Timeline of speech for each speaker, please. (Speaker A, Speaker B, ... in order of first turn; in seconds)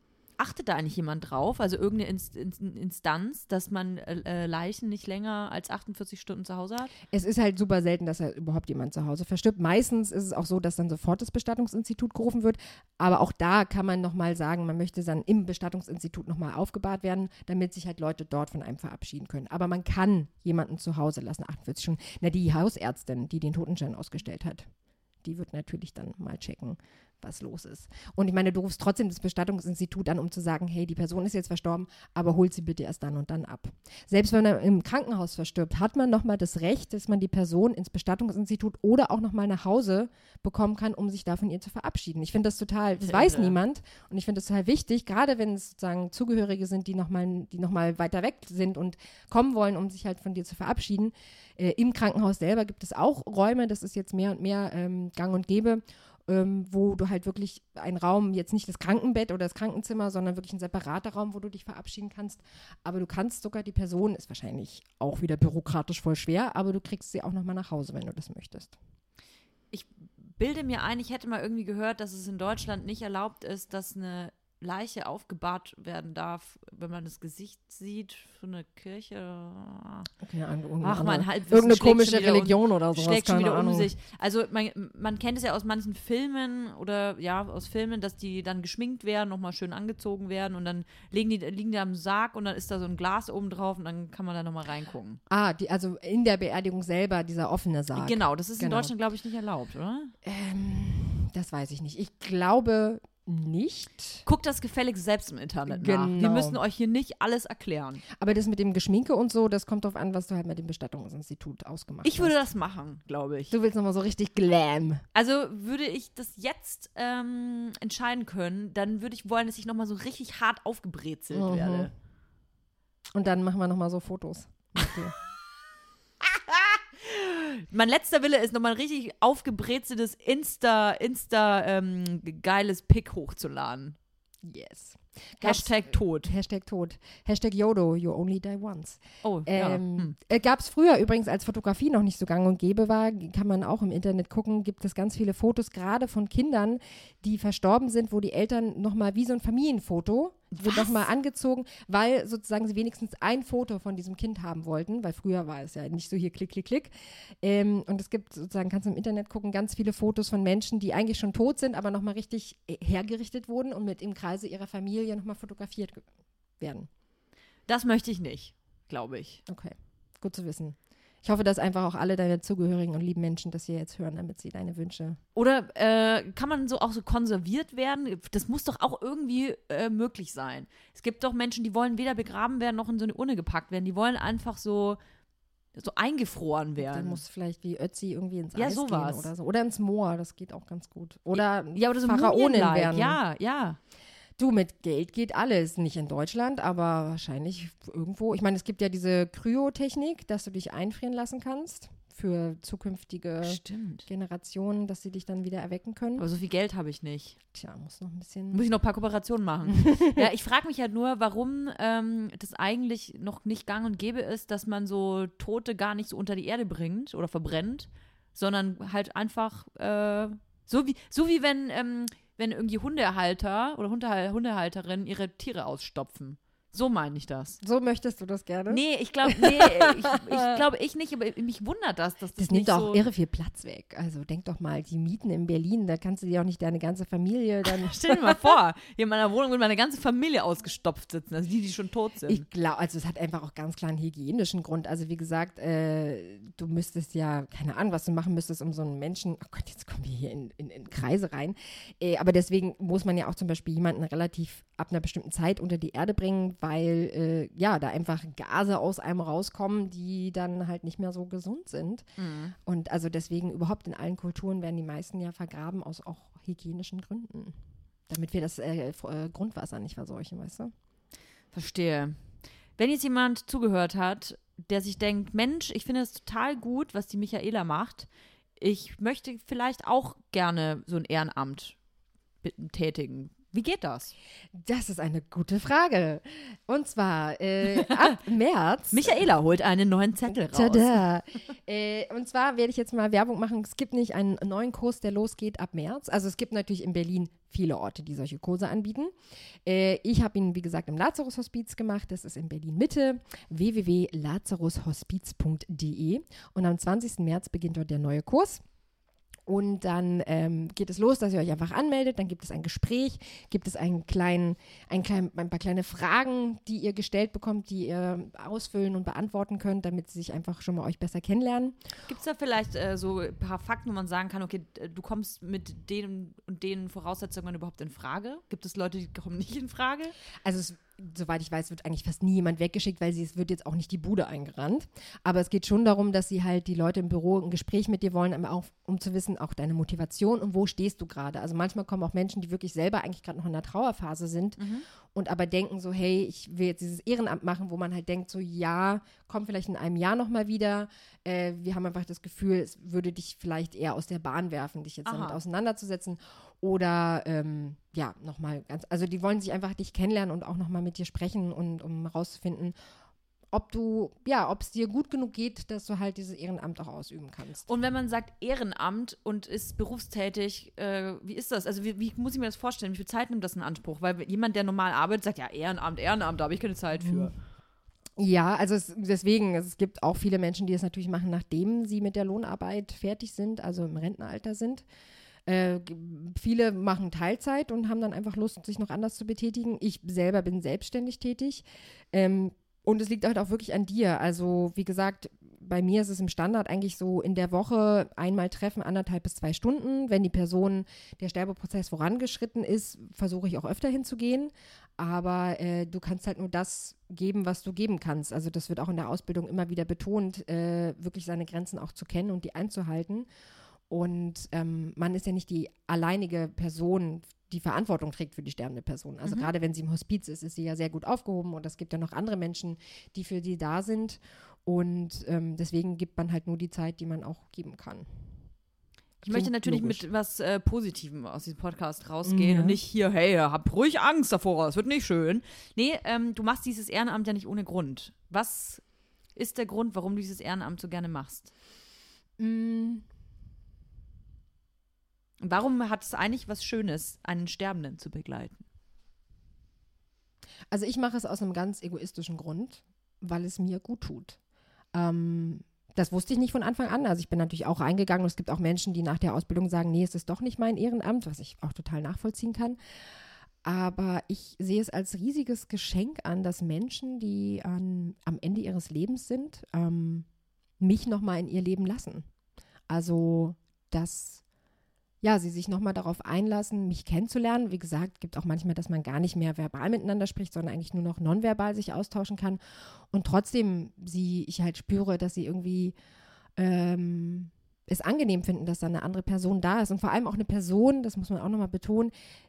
Speaker A: 0.4-6.9, 43.0-43.6, 69.7-80.1, 80.8-95.2, 97.9-100.1, 104.3-108.0, 112.0-113.5, 115.1-121.9, 126.5-134.0, 135.4-136.3, 139.2-140.2, 150.5-151.0, 167.7-169.4, 175.3-185.0, 185.7-187.2, 188.6-189.3, 192.0-193.8, 203.4-204.1, 206.2-207.4, 208.5-227.6, 228.7-233.0, 237.7-242.4, 262.2-262.6, 271.5-272.2, 272.8-281.8, 282.4-284.1, 288.9-291.0, 322.1-330.1, 344.6-344.9, 355.1-355.4, 367.6-377.3, 419.2-419.5, 429.2-438.8, 439.3-441.5, 445.4-448.6
Speaker B: 7.1-24.7, 25.2-68.7, 80.2-83.9, 95.3-98.9, 100.2-104.2, 105.7-106.6, 108.1-112.4, 113.5-115.0, 121.3-121.9, 123.1-125.1, 134.4-156.9, 157.4-166.1, 166.6-166.9, 169.5-175.2, 186.8-193.2, 194.4-206.2, 207.5-208.6, 209.8-210.2, 227.6-230.6, 232.4-238.5, 242.3-262.1, 262.6-267.6, 268.1-270.7, 284.5-289.2, 290.5-299.1, 299.6-308.6, 309.4-321.8, 330.4-362.8, 363.5-367.7, 377.0-377.3, 378.2-384.8, 385.4-413.3, 413.9-428.1, 429.2-430.0, 432.2-432.8, 442.4-443.1, 450.7-454.4, 454.9-462.8, 463.6-470.3, 470.8-472.2, 472.9-474.4, 475.2-482.6, 483.1-485.9, 486.6-492.1